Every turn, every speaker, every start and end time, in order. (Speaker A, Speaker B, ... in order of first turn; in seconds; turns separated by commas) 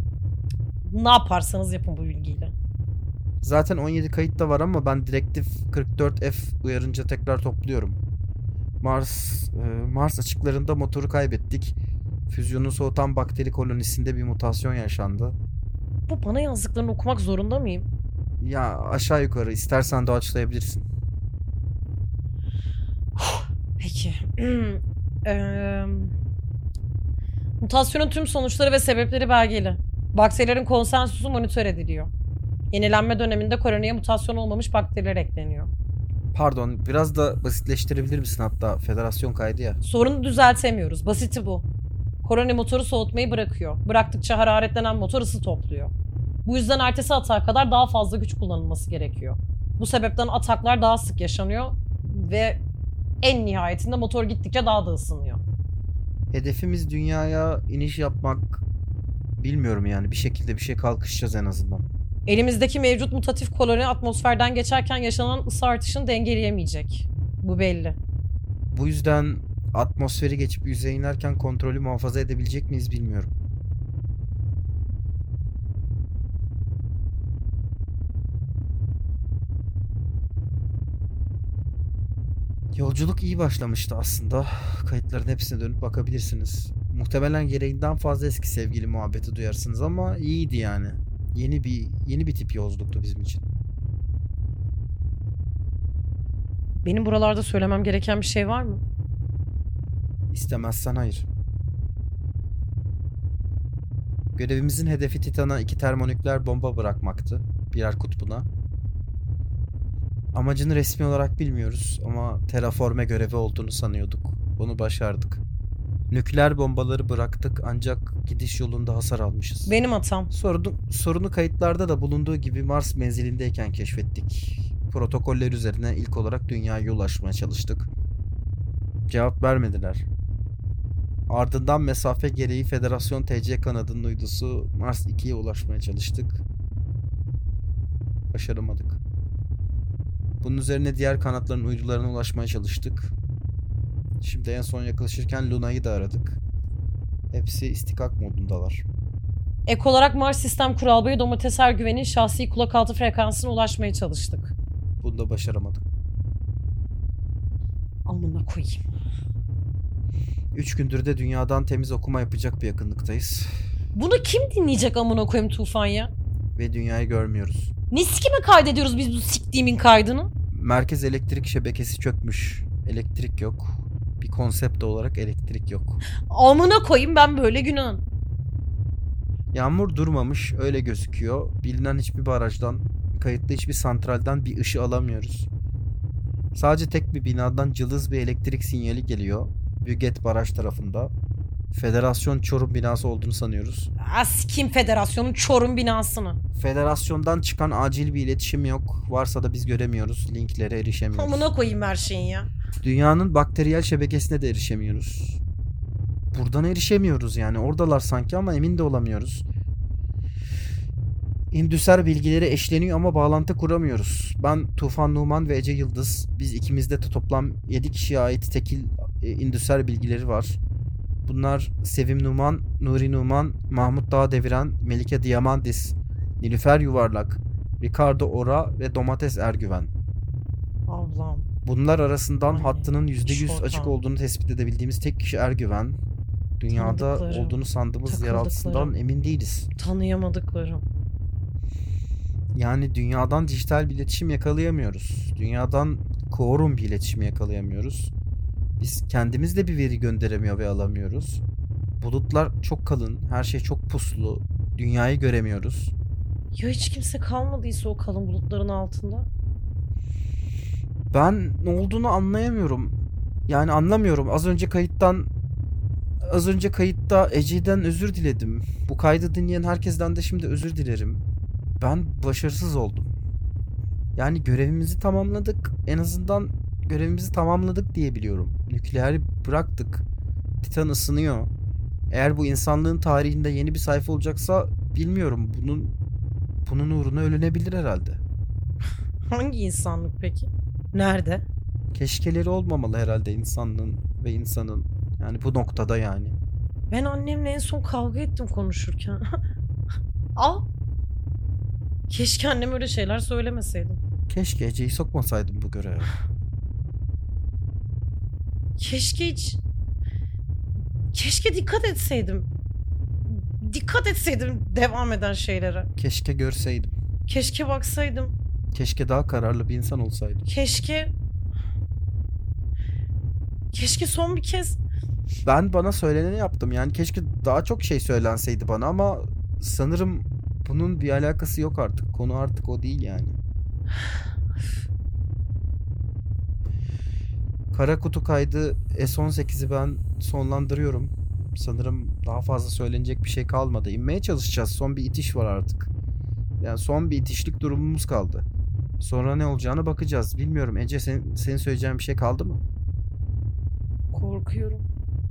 Speaker A: 0.8-2.5, Speaker B: 3.4-8.0, Speaker B: 8.8-11.7, Speaker B: 12.3-15.3, Speaker A: 16.1-17.9, Speaker B: 18.4-20.9, Speaker A: 23.2-26.1, Speaker A: 27.6-32.1, Speaker A: 32.7-35.7, Speaker B: 36.3-39.8, Speaker A: 39.8-41.6, Speaker A: 42.2-45.9, Speaker A: 46.4-52.6, Speaker A: 53.2-55.4, Speaker B: 56.3-58.6, Speaker B: 59.4-61.9, Speaker A: 62.3-68.0, Speaker B: 68.7-73.3, Speaker B: 82.7-93.5, Speaker A: 96.8-98.8, Speaker B: 100.3-101.3, Speaker B: 104.3-108.5, Speaker B: 110.3-115.4, Speaker B: 116.1-119.7, Speaker A: 119.7-120.3, Speaker B: 120.3-127.9, Speaker B: 129.1-130.1, Speaker B: 131.3-136.4, Speaker B: 138.3-139.0, Speaker B: 140.4-143.1, Speaker B: 144.2-146.4, Speaker B: 147.3-148.8, Speaker A: 149.7-154.5, Speaker B: 155.0-155.8, Speaker A: 158.1-158.8, Speaker B: 160.5-163.5, Speaker A: 163.9-166.1, Speaker B: 166.6-167.7, Speaker A: 167.9-170.3, Speaker B: 170.5-176.0, Speaker A: 176.3-178.0, Speaker B: 179.5-185.5, Speaker B: 186.5-191.1, Speaker B: 191.7-193.9, Speaker A: 194.0-196.4, Speaker B: 196.6-201.5, Speaker A: 201.1-202.5, Speaker B: 202.8-205.4, Speaker B: 206.3-209.4, Speaker B: 211.5-220.6, Speaker B: 221.3-229.9, Speaker A: 230.9-231.5, Speaker B: 231.6-236.0, Speaker A: 232.5-233.9, Speaker B: 236.6-239.7, Speaker A: 236.7-238.9, Speaker A: 239.8-240.8, Speaker B: 242.5-248.1, Speaker B: 248.8-251.4, Speaker B: 252.0-255.9, Speaker A: 256.6-259.3, Speaker B: 261.1-262.9, Speaker B: 263.5-265.3, Speaker B: 266.2-271.2, Speaker B: 271.8-273.1, Speaker B: 274.1-280.0, Speaker B: 280.6-281.5, Speaker B: 282.1-285.9, Speaker B: 286.6-288.2, Speaker A: 289.3-291.4, Speaker B: 291.9-296.4, Speaker A: 296.9-299.2, Speaker A: 300.4-300.6, Speaker A: 302.1-304.0, Speaker B: 304.3-306.1, Speaker A: 308.8-309.6, Speaker A: 311.1-312.5, Speaker A: 313.3-315.9, Speaker B: 316.0-316.9, Speaker A: 317.3-318.3, Speaker B: 318.7-320.4, Speaker A: 320.5-321.1, Speaker A: 323.7-324.8, Speaker B: 325.4-333.4, Speaker B: 337.7-345.9, Speaker B: 346.6-348.4, Speaker B: 349.0-352.6, Speaker A: 354.1-354.8